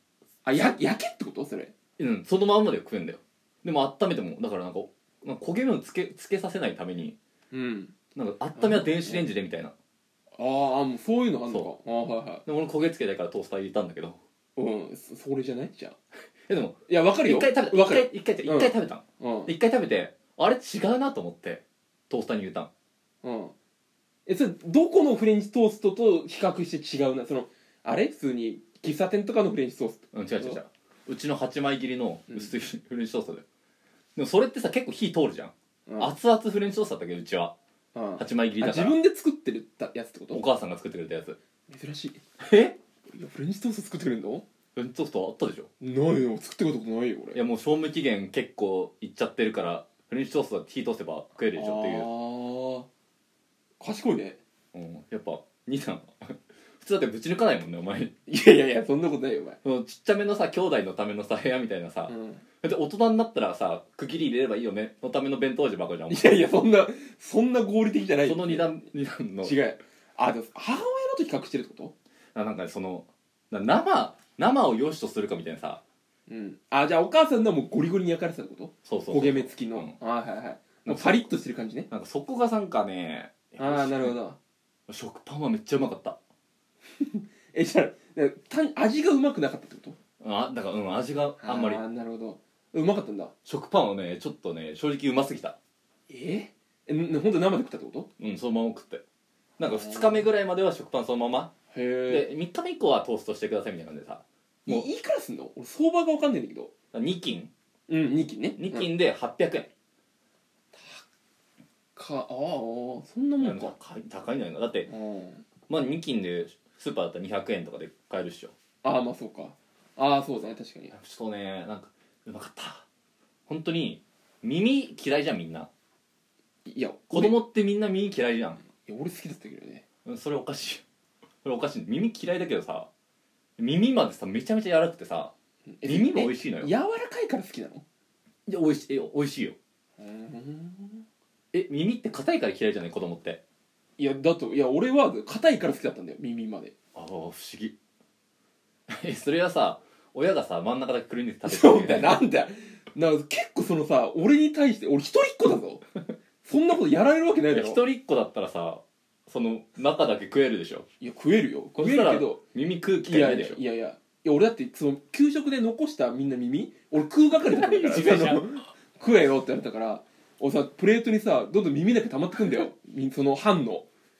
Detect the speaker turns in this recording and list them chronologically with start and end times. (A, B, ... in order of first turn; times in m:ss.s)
0:00.4-0:01.7 A
0:02.0-0:07.2 B
0:07.5-0:07.9 A
0:08.2-0:09.7 B
0:08.6-0:09.3 A
0:10.4-0:12.4 A
0:12.4-0:14.2 B
0:14.6-0:16.0 A
0:16.5-0:22.7 B
0:16.9-0:19.5 A
0:23.2-0:23.5 A
0:24.3-0:30.6 A
0:30.1-0:33.4 B
0:34.2-0:37.5 B
0:35.9-0:36.1 A
0:38.0-0:40.4 A
0:38.2-0:39.0 B
0:40.3-0:41.4 B
0:41.7-0:42.2 A
0:42.4-0:42.8 B
0:43.1-0:44.4 A
0:44.8-0:45.7 B
0:45.8-0:47.4 A
0:47.3-0:52.1 B
0:51.6-0:52.9 A
0:53.8-0:54.4 A
0:54.7-0:58.1 B
0:58.3-0:59.6 A
0:59.6-1:06.4 B
1:02.1-1:02.4 A
1:06.1-1:08.7 A
1:08.2-1:09.5 B
1:09.4-1:11.9 A
1:12.4-1:15.8 B
1:16.3-1:21.9 A
1:18.9-1:20.0 B
1:20.8-1:21.3 B
1:21.9-1:24.2 B
1:23.6-1:24.4 A
1:24.9-1:26.2 B
1:27.0-1:30.0 A
1:30.2-1:31.8 B
1:31.4-1:33.3 A
1:33.5-1:35.6 B
1:36.1-1:38.1 A
1:38.2-1:39.0 B
1:39.6-1:41.5 B
1:39.6-1:40.3 A
1:41.7-1:42.3 A
1:42.1-1:44.9 B
1:44.7-1:46.7 A
1:46.9-1:47.5 B
1:47.9-1:48.9 A
1:48.6-1:49.7 B
1:50.7-1:51.0 A
1:52.0-1:53.8 A
1:53.4-1:54.9 B
1:54.9-1:55.5 A
1:55.7-1:58.5 B
1:58.8-2:01.0 A
2:00.9-2:02.9 B
2:03.5-2:05.7 B
2:06.7-2:07.4 A
2:07.1-2:08.6 B
2:08.8-2:09.9 A
2:10.1-2:10.8 B
2:11.4-2:12.9 B
2:13.6-2:15.3 B
2:15.8-2:17.8 A
2:15.8-2:16.7 B
2:18.5-2:19.6 B
2:20.0-2:21.0 A
2:21.5-2:23.4 B
2:24.0-2:26.7 A
2:27.0-2:27.7 B
2:28.9-2:32.2 B
2:31.4-2:35.8 A
2:36.4-2:37.8 A
2:37.5-2:40.9 B
2:41.0-2:42.4 A
2:41.8-2:43.6 B
2:43.0-2:53.9 A
2:47.4-2:48.6 B